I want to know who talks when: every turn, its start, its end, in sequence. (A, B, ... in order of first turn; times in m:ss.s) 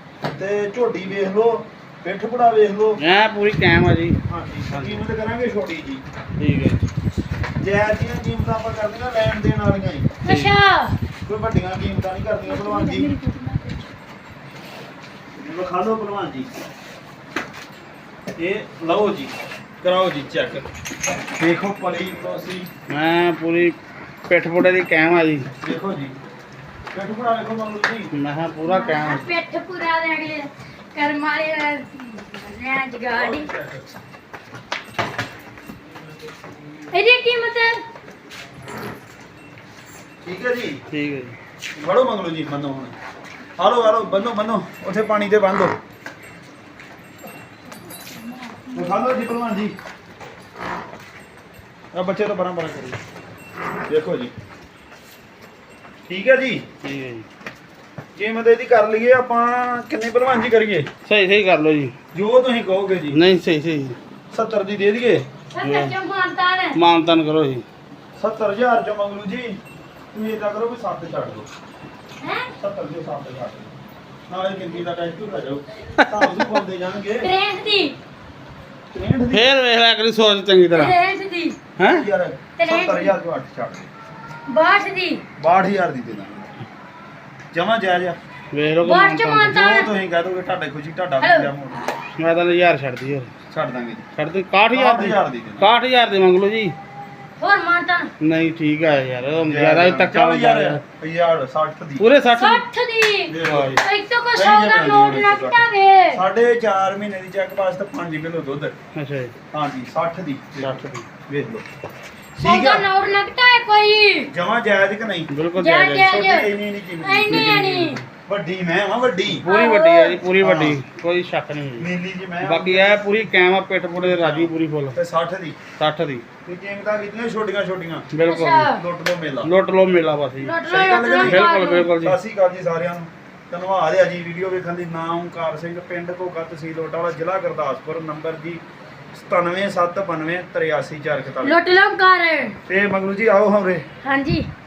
0:00.2-0:03.0 A
0:03.0-0:04.2 B
0:04.3-0:06.0 A
0:04.7-0:05.0 B
0:06.4-0:06.8 B
0:07.6-0:10.1 A
0:10.2-0:11.0 C
0:10.2-0:10.5 B
0:11.2-0:13.1 A
0:12.4-0:13.9 C
0:15.4-0:16.5 A
0:18.4-0:20.6 A
0:21.4-0:22.7 A
0:22.9-0:23.8 B
0:24.3-0:25.5 B
0:25.6-0:26.1 A
0:26.9-0:28.1 A
0:28.1-0:29.3 B
0:28.6-0:33.5 C
0:33.1-0:34.0 A
0:36.9-0:37.8 C
0:40.2-0:40.8 A
0:40.9-0:41.4 B
0:41.8-0:42.9 A
0:43.6-0:45.8 A
0:48.2-0:49.1 C
0:48.7-0:49.7 A
0:51.9-0:53.0 A
0:53.9-0:54.3 A
0:56.1-0:56.6 A
0:56.8-0:57.2 B
0:58.2-1:00.9 A
1:01.0-1:01.9 B
1:02.1-1:03.2 A
1:03.1-1:04.0 B
1:04.3-1:05.3 A
1:05.5-1:06.8 C
1:05.6-1:05.9 B
1:06.7-1:07.6 B
1:08.2-1:09.6 A
1:10.1-1:11.5 A
1:12.2-1:12.5 C
1:12.6-1:13.7 A
1:14.3-1:17.3 A
1:16.0-1:16.4 B
1:17.2-1:18.0 C
1:18.9-1:19.5 A
1:19.3-1:20.9 B
1:20.7-1:21.6 C
1:21.8-1:22.0 B
1:21.8-1:23.9 A
1:22.6-1:23.2 C
1:24.5-1:25.2 C
1:25.4-1:26.6 A
1:27.5-1:28.2 A
1:28.5-1:29.6 B
1:28.8-1:29.9 C
1:29.5-1:31.9 A
1:31.2-1:31.5 C
1:32.2-1:33.3 B
1:33.5-1:34.1 A
1:34.2-1:36.8 B
1:34.7-1:35.7 A
1:37.4-1:38.1 C
1:38.2-1:40.8 B
1:39.5-1:42.0 A
1:42.0-1:42.6 B
1:42.3-1:46.2 C
1:43.3-1:43.8 A
1:43.4-1:43.8 B
1:44.3-1:48.8 A
1:48.9-1:49.3 B
1:49.5-1:51.6 A
1:50.6-1:51.0 B
1:52.4-1:54.3 C
1:52.4-1:52.8 A
1:54.3-1:55.3 A
1:55.3-1:56.2 B
1:55.6-1:58.0 C
1:56.0-1:57.5 A
1:57.3-1:58.1 B
1:58.2-1:59.4 A
1:59.3-2:01.9 B
1:59.4-2:00.2 C
2:00.4-2:00.8 A
2:01.8-2:03.0 A
2:02.4-2:05.0 B
2:04.0-2:05.6 A
2:05.8-2:06.2 B
2:06.4-2:08.1 A
2:08.1-2:08.7 B
2:08.2-2:08.8 C
2:08.7-2:09.5 A
2:09.4-2:10.6 B
2:10.4-2:11.9 C
2:10.7-2:11.5 A
2:11.2-2:12.2 B
2:12.0-2:18.6 A
2:19.1-2:21.6 A
2:21.4-2:22.6 C
2:22.7-2:23.8 A
2:24.0-2:24.5 C